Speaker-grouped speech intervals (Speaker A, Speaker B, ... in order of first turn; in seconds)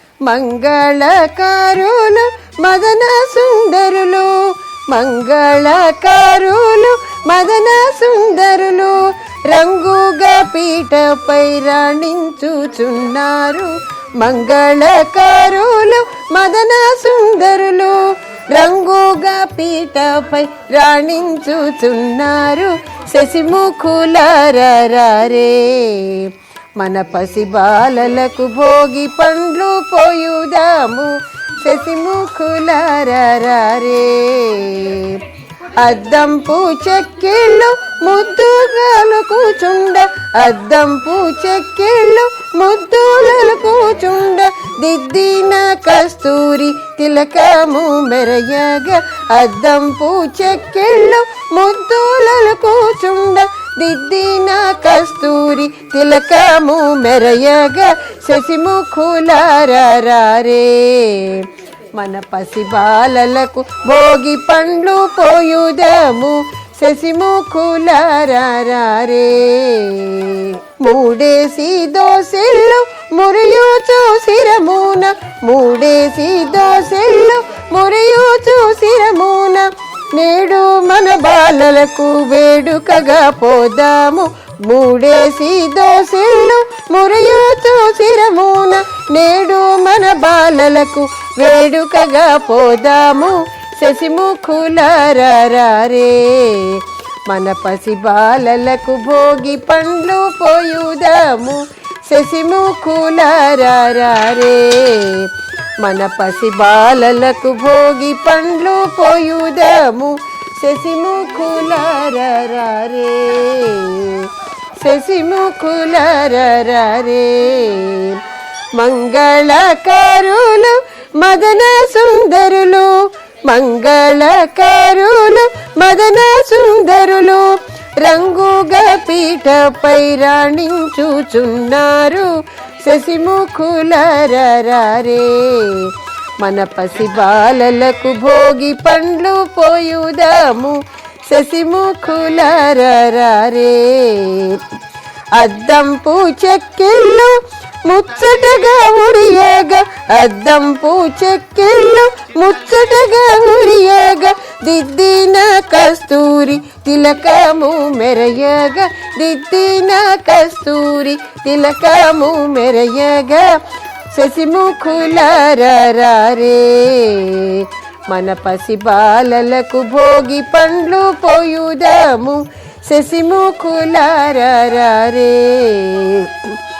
Speaker A: 0.2-35.2, 35.8-144.7, 145.3-176.6